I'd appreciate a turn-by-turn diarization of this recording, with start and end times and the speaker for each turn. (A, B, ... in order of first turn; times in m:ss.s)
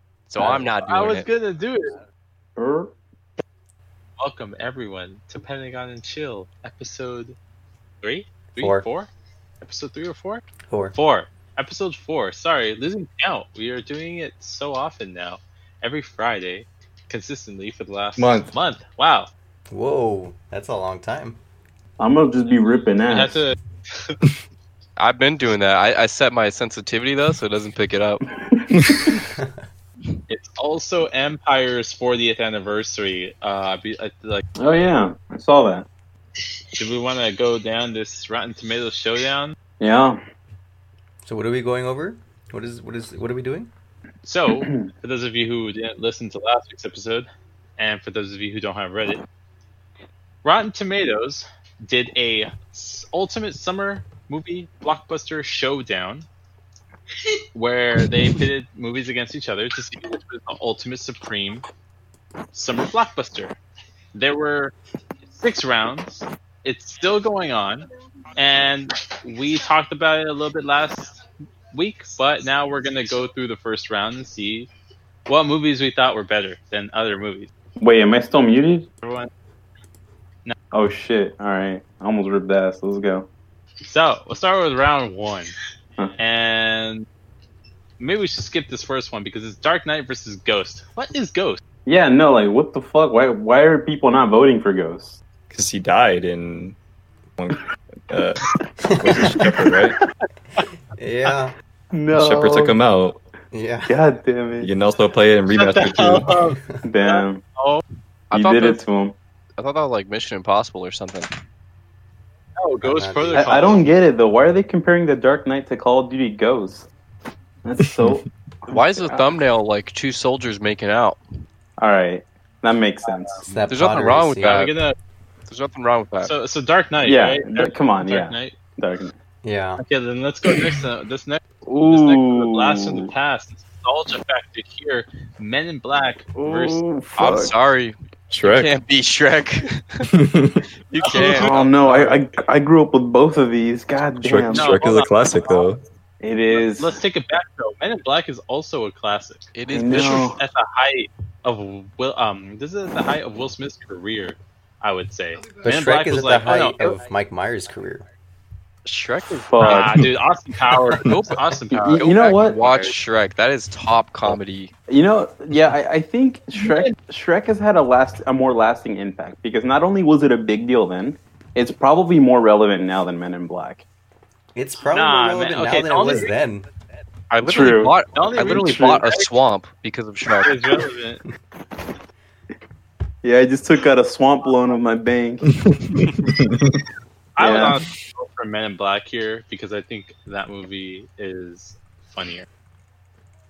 0:00.3-0:01.3 A
0:00.8-0:02.0 B
0:02.6-0:03.0 C
0:04.2-0:07.4 B
0:08.0-0:09.1 B
0:08.6-0:08.8 D
0:09.6-0:19.3 B
0:10.7-0:11.0 D
0:18.2-0:18.5 E
0:19.7-0:21.4 D
0:22.0-0:23.4 C
0:23.1-0:24.2 B
0:25.0-0:28.3 A
0:29.2-0:29.5 D
0:30.3-0:34.4 B
0:34.6-0:35.9 C
0:36.7-0:39.6 B
0:39.8-0:40.2 C
0:41.2-0:43.7 D
0:44.2-0:49.2 B
0:44.5-0:44.9 C
0:50.4-0:56.3 B
0:57.6-1:01.6 B
1:02.5-1:03.6 B
1:04.1-1:04.7 B
1:05.3-1:11.2 B
1:11.7-1:14.7 B
1:15.3-1:17.5 B
1:17.8-1:18.9 C
1:19.0-1:19.3 B
1:20.7-1:23.3 C
1:23.8-1:25.5 B
1:26.2-1:27.1 B
1:28.0-1:31.6 B
1:31.9-1:35.2 C
1:35.5-1:36.8 E
1:37.4-1:40.0 E
1:38.8-1:39.4 D
1:40.6-1:41.5 D
1:41.9-1:42.8 C
1:42.1-1:43.2 E
1:43.5-1:43.9 D
1:43.9-1:44.7 C
1:44.6-1:46.4 E
1:45.5-1:47.8 B
1:46.6-1:46.9 D
1:46.8-1:47.4 C
1:48.3-1:48.8 A
1:48.3-1:49.2 C
1:49.6-1:51.3 A
1:52.6-1:53.9 B
1:52.8-1:53.8 D
1:53.4-1:56.9 C
1:57.6-1:59.4 C
1:58.7-2:01.2 A
2:01.8-2:03.5 C
2:03.1-2:03.4 B
2:03.4-2:04.6 D
2:03.7-2:04.8 A
2:04.4-2:05.0 B
2:05.5-2:06.3 A
2:06.2-2:08.6 B
2:07.0-2:09.2 C
2:09.4-2:09.8 D
2:09.8-2:16.8 B
2:11.7-2:13.1 C
2:16.4-2:17.5 C
2:17.2-2:20.1 A
2:18.3-2:18.7 E
2:20.1-2:20.6 E
2:20.9-2:21.5 A
2:21.0-2:22.3 B
2:21.3-2:24.8 C
2:24.2-2:25.8 E
2:24.5-2:25.6 B
2:26.2-2:27.0 C
2:26.5-2:29.5 B
2:29.5-2:30.3 A
2:29.7-2:30.4 C
2:30.0-2:37.0 B
2:35.6-2:38.0 D
2:38.8-2:39.9 A
2:39.5-2:40.1 C
2:39.6-2:42.9 B
2:41.0-2:44.7 A
2:41.7-2:42.9 C
2:44.9-2:53.8 C
2:46.6-2:46.9 B
2:54.6-2:56.7 D
2:54.9-2:56.3 B
2:57.3-3:00.7 A
2:57.4-2:59.0 C
2:58.1-2:59.3 B
3:00.4-3:01.2 B
3:03.2-3:05.5 C
3:05.6-3:06.8 E
3:07.4-3:12.5 B
3:07.4-3:07.8 C